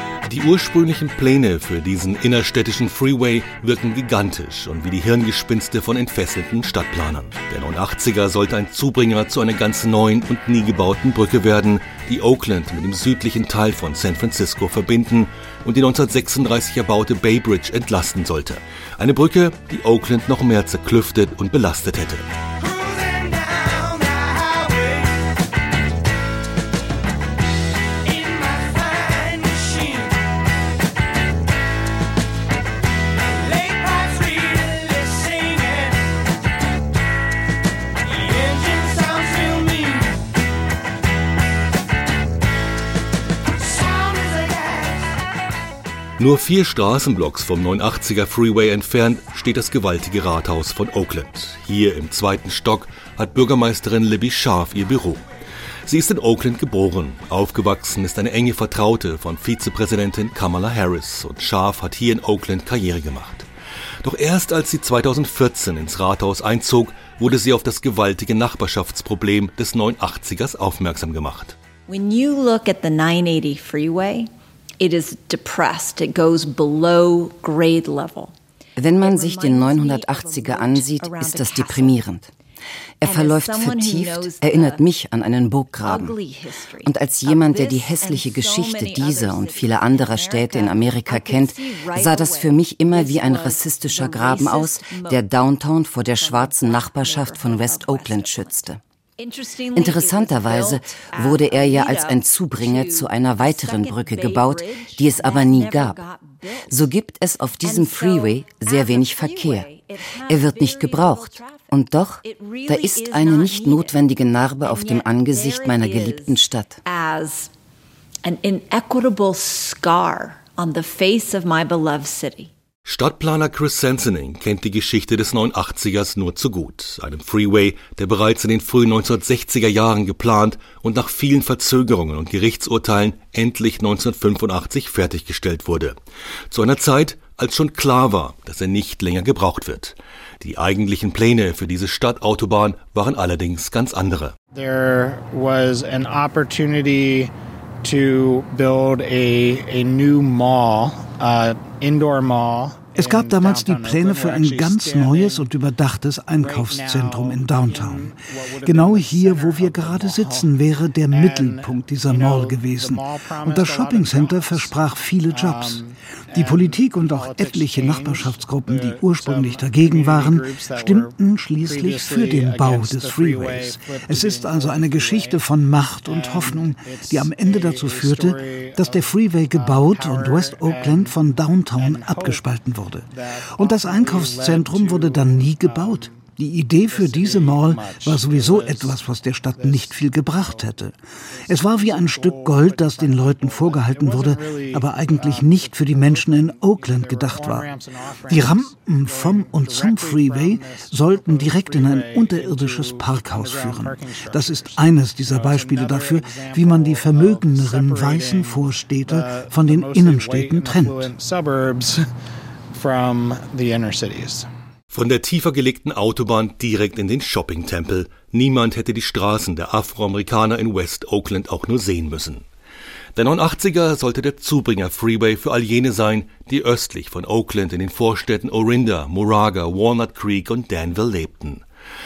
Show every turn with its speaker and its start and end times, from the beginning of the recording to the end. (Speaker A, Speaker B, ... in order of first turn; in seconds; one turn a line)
Speaker A: 0.2-22.2
Speaker A: 46.2-55.2
Speaker A: 55.9-63.5
Speaker A: 64.0-71.6
Speaker B: 71.9-78.3
Speaker C: 78.8-82.3
Speaker B: 79.0-82.0
Speaker C: 83.0-86.2
Speaker B: 83.0-84.8
Speaker B: 85.8-95.3
Speaker C: 86.8-98.8
Speaker B: 96.0-98.6
Speaker B: 99.2-106.8
Speaker C: 99.8-106.0
Speaker C: 106.7-109.7
Speaker B: 107.6-114.0
Speaker C: 110.3-116.8
Speaker B: 114.6-117.5
Speaker B: 118.2-122.5
Speaker A: 122.9-136.0
Speaker A: 136.5-144.3
Speaker D: 144.5-147.3
Speaker D: 147.8-155.5
Speaker E: 152.9-165.8
Speaker D: 156.3-160.5
Speaker D: 161.1-164.8
Speaker D: 165.3-175.4
Speaker E: 166.3-191.0
Speaker D: 176.0-181.2
Speaker D: 181.8-182.4
Speaker D: 183.2-186.2
Speaker D: 186.8-189.0
Speaker D: 189.6-190.7
Speaker D: 191.3-212.0
Speaker E: 191.5-197.7
Speaker E: 198.3-211.1
Speaker D: 212.7-214.5
Speaker A: 214.9-222.4
Speaker A: 223.2-231.6